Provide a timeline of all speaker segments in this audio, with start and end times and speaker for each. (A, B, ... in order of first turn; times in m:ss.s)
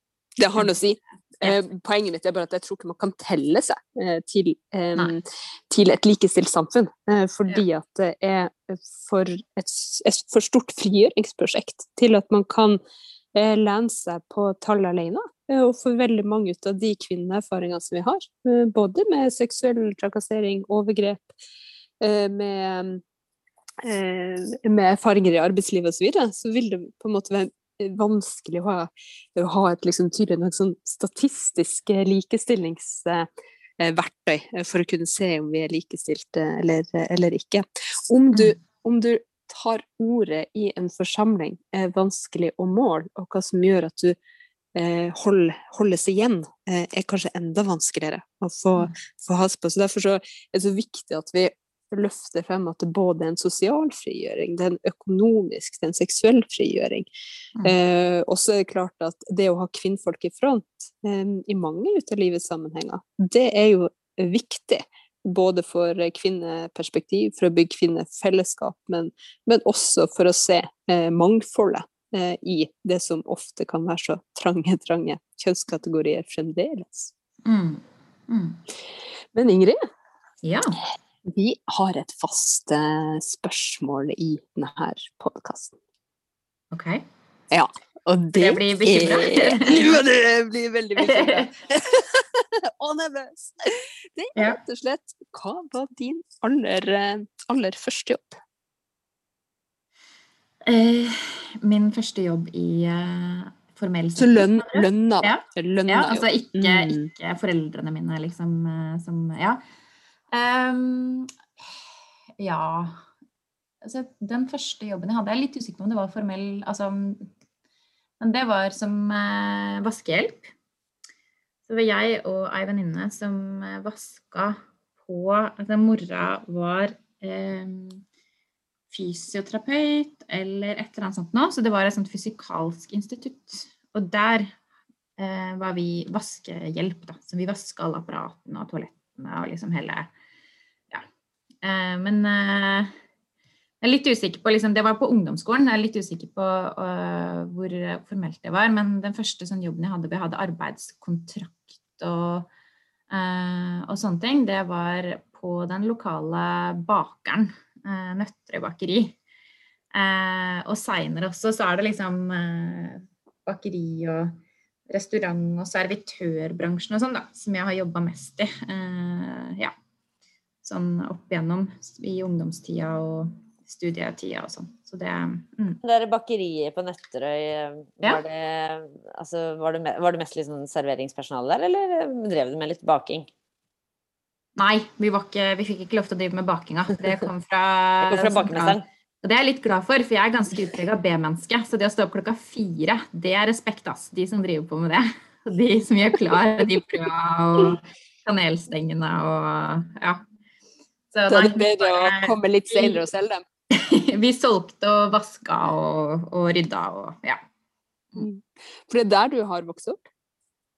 0:00.4-0:12.8 A
0:13.3-0:21.3 A
0:22.0-0:23.0 A
0:23.8-0:33.3 A
0:33.8-0:44.2 A
0:44.8-0:57.1 A
0:57.6-1:17.1 A
1:17.4-1:18.6 B
1:19.3-1:19.8 A
1:20.4-1:20.8 B
1:21.2-1:25.8 A
1:26.7-1:27.0 B
1:27.5-1:38.4 A
1:28.4-1:30.0 B
1:31.0-1:31.5 B
1:40.7-1:49.6 B
1:44.2-1:47.1 A
1:50.3-1:51.3 B
1:52.4-1:53.0 B
1:53.8-1:57.3 B
1:58.2-2:00.5 B
2:01.7-2:08.0 B
2:08.9-2:14.6 B
2:15.2-2:20.1 B
2:21.6-2:22.9 B
2:23.8-2:32.5 B
2:33.1-2:39.2 B
2:39.9-2:44.4 B
2:44.9-2:49.7 B
2:50.6-2:55.8 B
2:55.8-3:03.3 C
3:04.6-3:20.2 B
3:08.0-3:08.8 C
3:21.1-3:23.0 B
3:21.3-3:23.4 A
3:23.7-3:27.4 B
3:28.2-3:30.1 A